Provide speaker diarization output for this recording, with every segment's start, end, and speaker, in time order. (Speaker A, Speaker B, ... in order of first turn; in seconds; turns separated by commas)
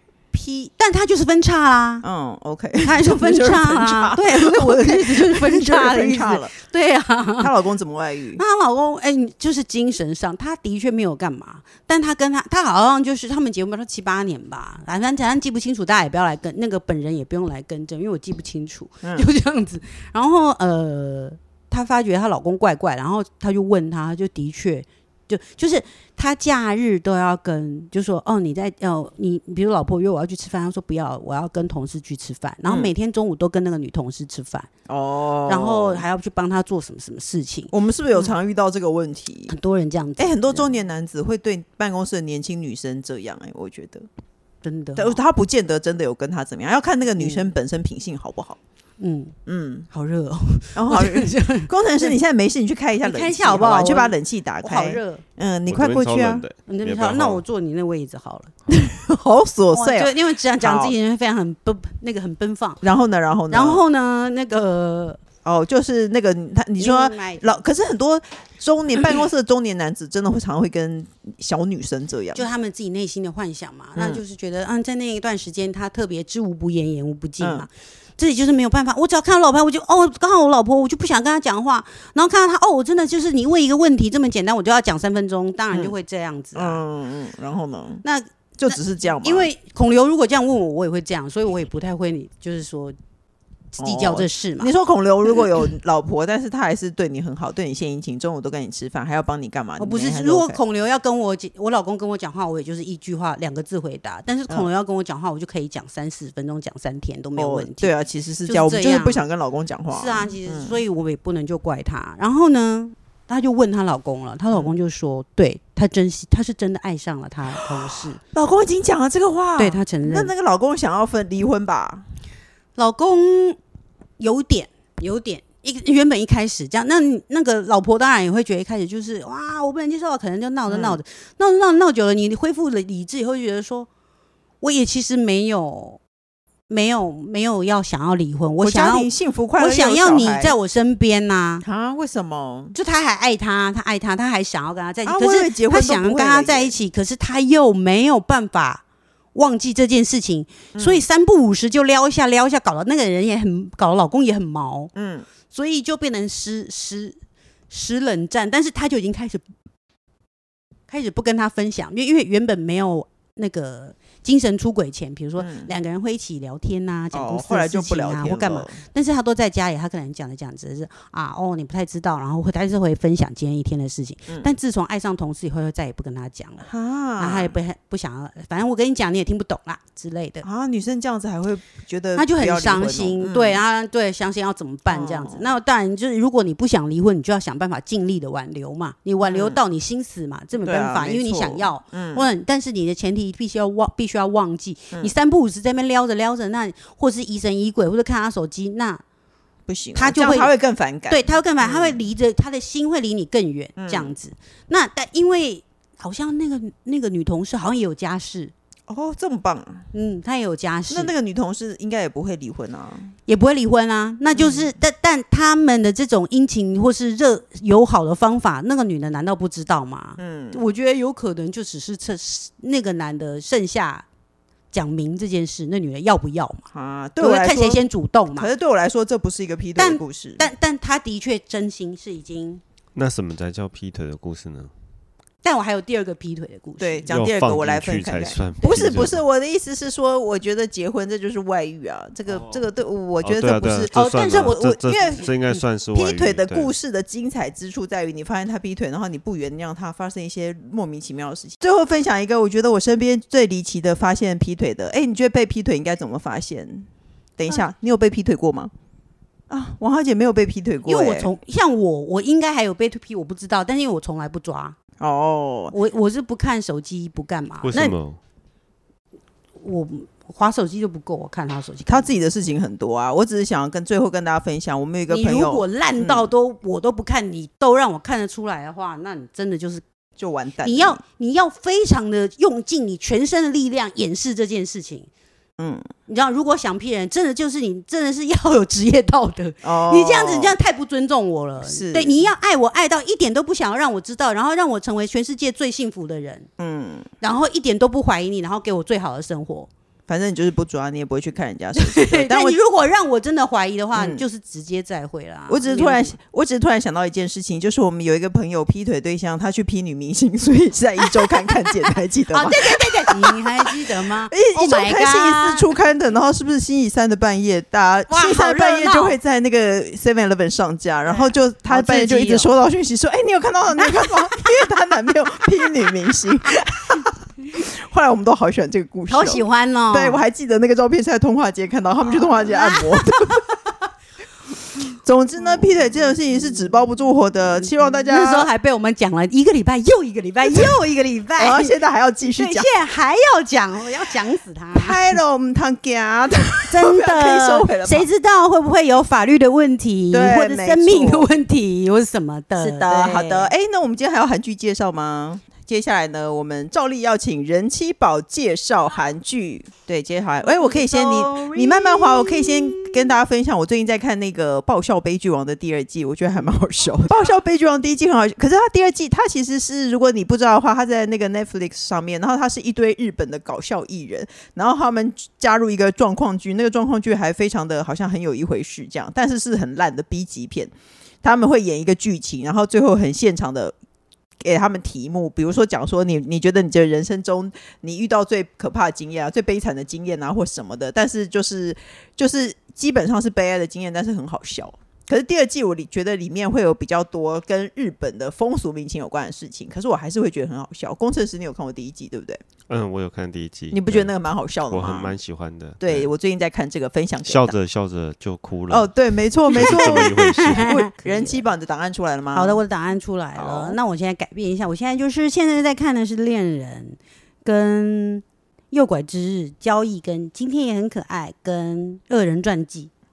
Speaker A: 0.3-2.0, Speaker B: 2.0-6.5, Speaker A: 2.8-7.5, Speaker B: 7.4-8.4, Speaker A: 8.4-34.7, Speaker B: 32.7-32.9, Speaker B: 34.9-36.0, Speaker A: 35.5-38.3, Speaker B: 37.7-39.5, Speaker A: 39.5-40.7, Speaker B: 40.2-44.1, Speaker A: 44.6-45.2, Speaker B: 45.0-48.6, Speaker A: 47.2-47.5, Speaker A: 49.0-49.3, Speaker B: 49.5-49.9, Speaker A: 49.9-52.1, Speaker B: 50.8-56.5, Speaker A: 53.0-55.2, Speaker C: 55.7-57.4, Speaker A: 56.7-58.5, Speaker B: 58.7-61.0, Speaker A: 59.7-62.8, Speaker B: 62.8-63.8, Speaker A: 63.5-65.2, Speaker B: 65.5-72.5, Speaker A: 66.8-67.6, Speaker A: 72.3-86.8, Speaker B: 74.0-74.2, Speaker B: 77.4-77.7, Speaker B: 86.5-88.0, Speaker A: 88.0-93.0, Speaker B: 88.6-89.5, Speaker A: 93.8-94.7, Speaker B: 93.8-100.6, Speaker A: 99.8-107.9, Speaker B: 107.4-110.8, Speaker A: 108.5-109.2, Speaker A: 109.9-118.2, Speaker B: 118.3-122.1, Speaker A: 119.6-120.3, Speaker A: 122.8-123.6, Speaker A: 124.2-133.9, Speaker B: 130.7-131.0, Speaker A: 134.6-136.0, Speaker A: 136.7-141.7, Speaker B: 138.6-140.6, Speaker B: 141.6-142.8, Speaker A: 142.7-148.8, Speaker B: 145.1-146.8, Speaker A: 149.3-154.9, Speaker B: 150.7-151.0, Speaker B: 154.9-155.3, Speaker A: 155.5-157.2, Speaker A: 157.7-159.4, Speaker A: 160.9-180.4, Speaker B: 165.4-165.7, Speaker B: 167.1-168.8, Speaker B: 176.7-177.6, Speaker B: 180.4-183.6, Speaker A: 182.2-199.0, Speaker B: 184.9-185.4, Speaker B: 189.2-189.6, Speaker B: 190.6-192.3, Speaker B: 199.7-202.0, Speaker A: 199.9-200.5, Speaker A: 201.1-208.5, Speaker B: 203.8-204.1, Speaker B: 208.9-209.9, Speaker A: 209.9-211.1, Speaker B: 210.9-213.1, Speaker A: 213.3-224.1, Speaker B: 214.3-214.7, Speaker B: 220.2-220.6, Speaker A: 224.7-226.7, Speaker B: 226.7-230.5, Speaker A: 227.2-228.5, Speaker A: 229.8-232.6, Speaker C: 232.9-234.7, Speaker A: 235.4-237.1, Speaker B: 236.8-245.3, Speaker C: 237.1-239.2, Speaker C: 243.2-246.7, Speaker A: 243.9-245.6, Speaker B: 245.9-258.7, Speaker B: 259.5-261.3, Speaker A: 260.9-264.8, Speaker B: 265.0-265.7, Speaker A: 265.7-267.8, Speaker C: 267.6-268.2, Speaker A: 269.6-272.1, Speaker B: 271.9-276.3, Speaker A: 275.1-279.8, Speaker B: 280.2-281.0, Speaker A: 280.6-285.1, Speaker B: 285.6-285.9, Speaker A: 286.1-296.5, Speaker B: 289.6-290.6, Speaker B: 291.6-292.3, Speaker B: 296.6-297.1, Speaker A: 297.2-299.7, Speaker B: 300.1-302.6, Speaker A: 301.8-306.1, Speaker B: 303.9-304.2, Speaker B: 305.5-333.4, Speaker A: 312.3-315.7, Speaker A: 318.1-319.2, Speaker A: 321.1-322.5, Speaker A: 329.1-330.2, Speaker A: 332.2-333.6, Speaker B: 334.8-338.5, Speaker A: 338.1-341.7, Speaker B: 340.5-340.7, Speaker B: 341.4-342.7, Speaker A: 342.3-345.1, Speaker B: 344.7-348.1, Speaker A: 346.7-353.5, Speaker B: 350.1-351.3, Speaker B: 352.6-380.7, Speaker A: 360.4-363.0, Speaker B: 381.2-383.8, Speaker B: 384.4-402.4, Speaker C: 402.7-404.1, Speaker B: 403.7-405.2, Speaker C: 404.7-406.1, Speaker B: 405.8-407.6, Speaker C: 407.3-408.9, Speaker B: 408.7-412.6, Speaker C: 409.5-410.7, Speaker A: 409.5-411.4, Speaker A: 412.3-422.9, Speaker B: 413.4-413.8